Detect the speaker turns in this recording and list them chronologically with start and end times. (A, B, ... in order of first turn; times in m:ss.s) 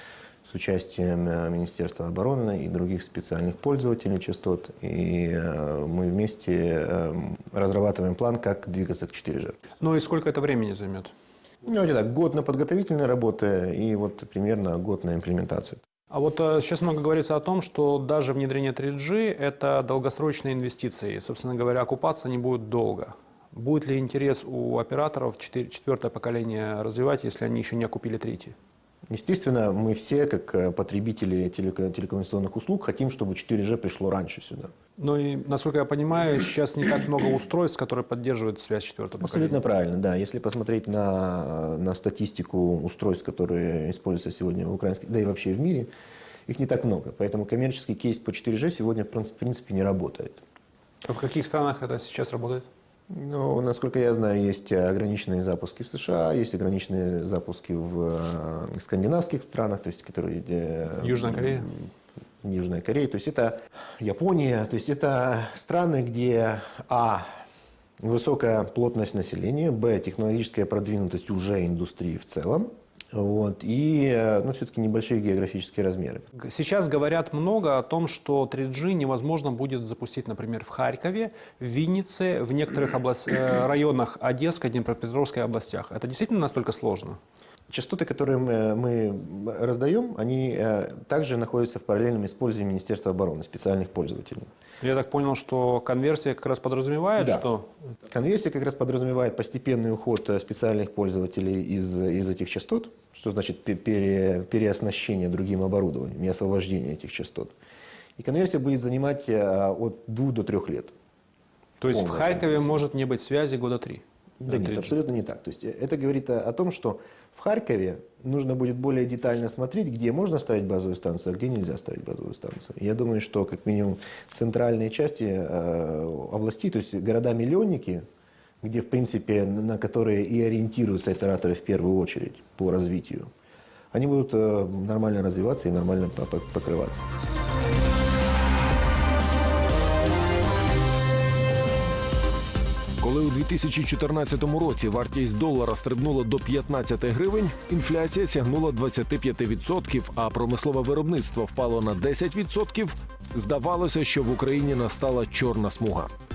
0:00.4-0:09.6 A
0:09.8-0:11.1 B
0:11.6-0:15.8 A
0:16.1-0:28.6 B
0:29.1-0:34.7 A
0:35.0-0:39.6 B
0:39.2-0:45.9 A
0:46.5-0:50.4 A
0:51.1-0:52.7 B
0:53.1-1:01.7 A
1:01.0-1:01.7 B
1:02.4-1:07.3 A
1:08.0-1:16.2 A
1:16.4-1:27.2 B
1:27.7-1:34.5 A
1:34.8-1:37.7 B
1:37.2-1:37.5 A
1:38.1-1:47.5 A
1:48.2-1:50.9 A
1:51.8-1:55.0 B
1:51.9-1:52.8 A
1:54.4-2:08.1 A
2:08.6-2:13.3 A
2:13.9-2:17.0 A
2:23.0-2:36.1 C